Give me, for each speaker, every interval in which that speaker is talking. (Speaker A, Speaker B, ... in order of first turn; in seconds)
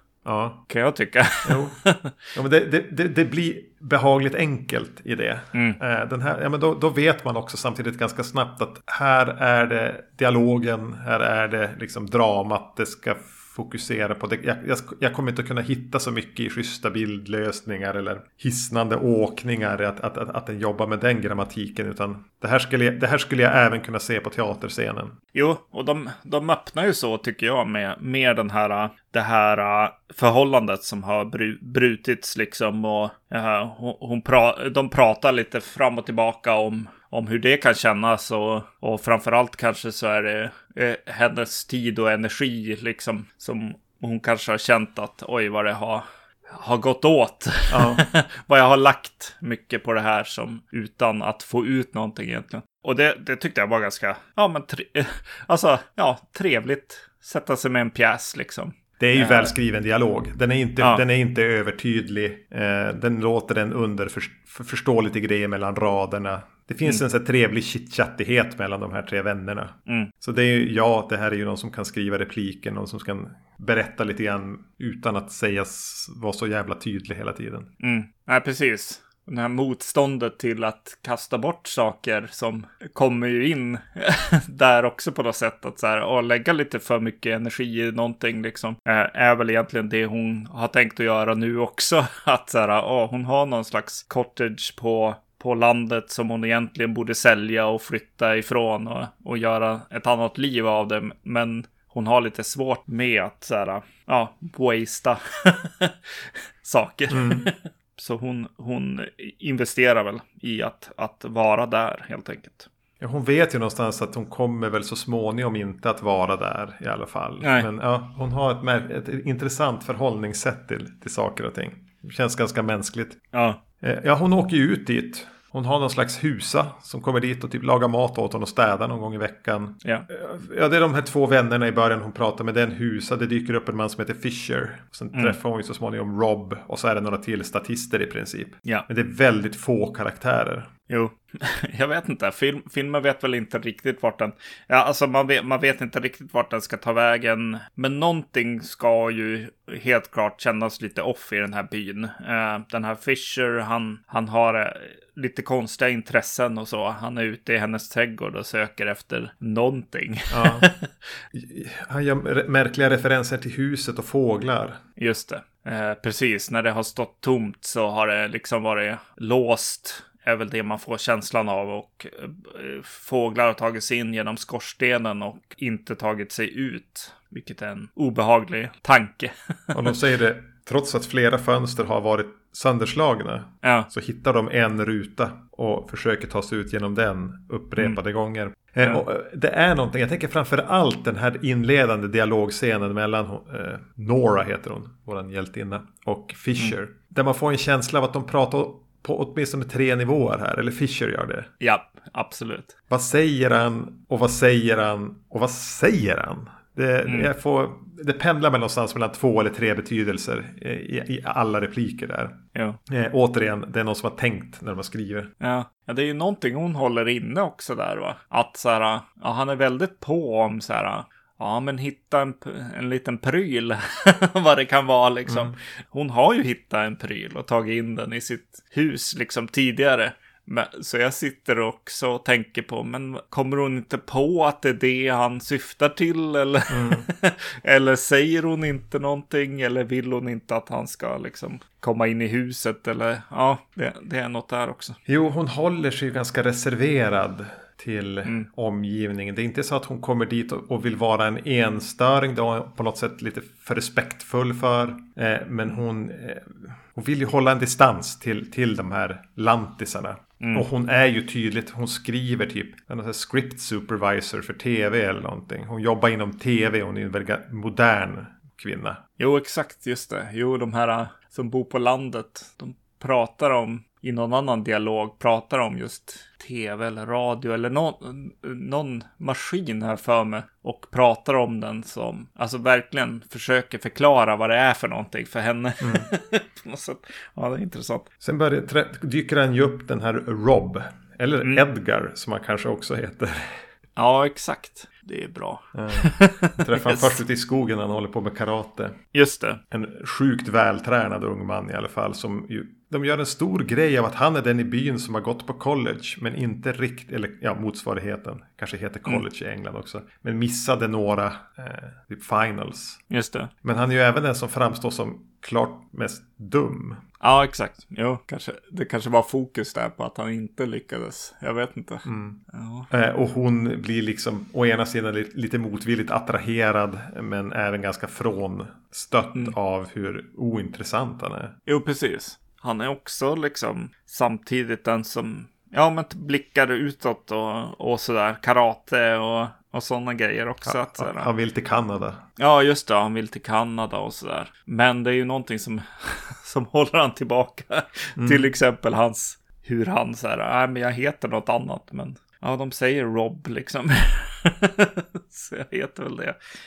Speaker A: 0.2-0.6, 1.4-1.8, 2.4-25.2, 47.7-48.1, 59.0-77.7, 107.1-107.5, 113.0-123.2, 123.8-140.7, 160.3-160.7, 161.3-164.8, 179.7-201.5, 202.9-215.3, 225.3-225.5, 236.7-237.1, 245.1-269.0, 285.8-286.1, 288.2-293.6, 295.7-299.0, 299.7-313.0, 313.6-317.0, 322.1-331.6, 340.7-342.2, 348.2-348.5
Speaker B: 0.7-2.2, 5.5-5.8, 25.3-59.5, 77.8-112.7, 117.4-117.7, 123.3-123.6, 140.9-160.9, 165.0-180.0, 183.6-183.9, 201.6-202.7, 212.5-212.8, 215.4-245.0, 260.4-260.7, 269.2-288.1, 294.0-297.2, 299.1-299.6, 313.1-313.5, 317.2-322.9, 331.7-341.3, 342.4-356.4